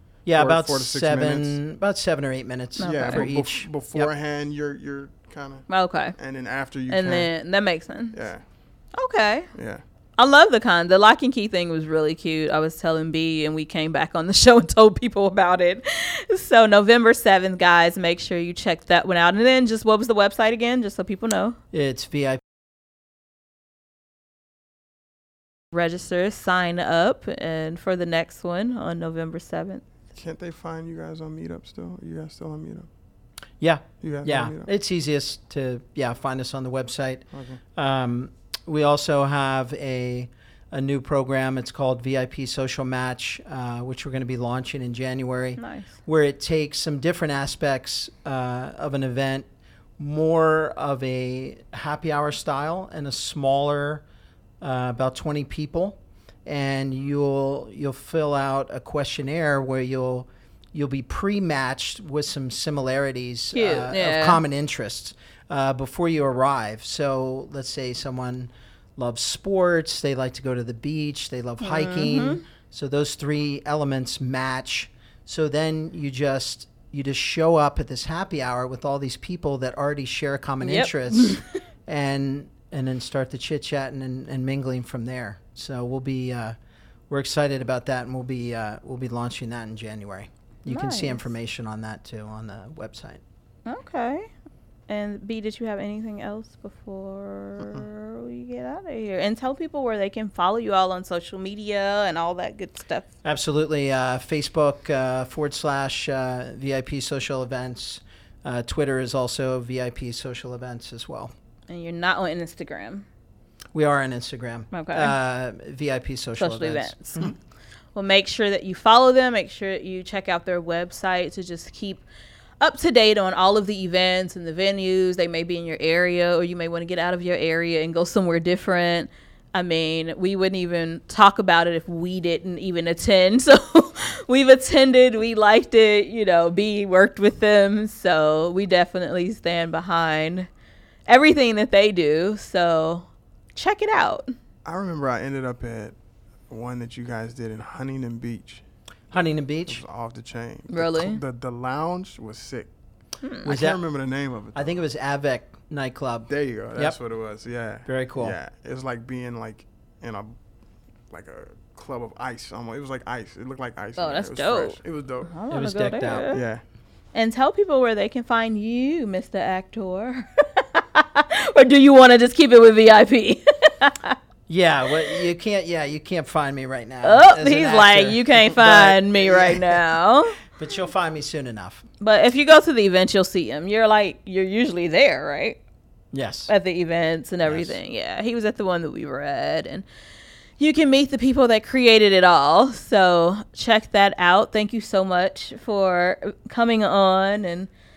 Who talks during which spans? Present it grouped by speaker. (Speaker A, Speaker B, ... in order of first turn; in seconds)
Speaker A: 0.3-4.1, 21.7-22.4, 33.6-49.5, 50.0-54.0, 54.6-86.6, 87.1-93.2, 103.2-111.3, 113.7-117.3, 149.1-149.8, 153.5-153.8, 154.6-157.0, 157.9-158.4, 165.5-166.3, 174.5-179.8, 180.4-181.8, 186.1-186.5, 187.5-187.8
Speaker B: 0.3-1.6, 2.8-7.3, 8.1-8.4, 9.6-9.8, 30.1-32.9, 34.0-34.7, 37.3-37.6, 144.7-145.9, 146.5-148.6, 149.7-152.7, 153.4-154.7, 156.3-160.3, 161.1-165.3, 166.3-166.6
Speaker C: 2.8-3.2, 5.7-6.2, 6.9-8.2, 8.9-9.5, 10.2-21.6, 25.7-29.8, 45.6-45.9, 63.5-64.4, 71.6-72.4, 80.6-81.5, 90.7-91.2, 93.7-94.3, 94.9-103.1, 111.7-113.1, 114.7-115.1, 116.4-117.3, 118.0-122.0, 122.6-140.5, 141.1-144.3, 150.7-151.2, 153.2-153.5, 164.0-166.4, 167.1-174.2, 177.0-180.4, 182.0-185.6, 186.5-189.9, 190.6-197.7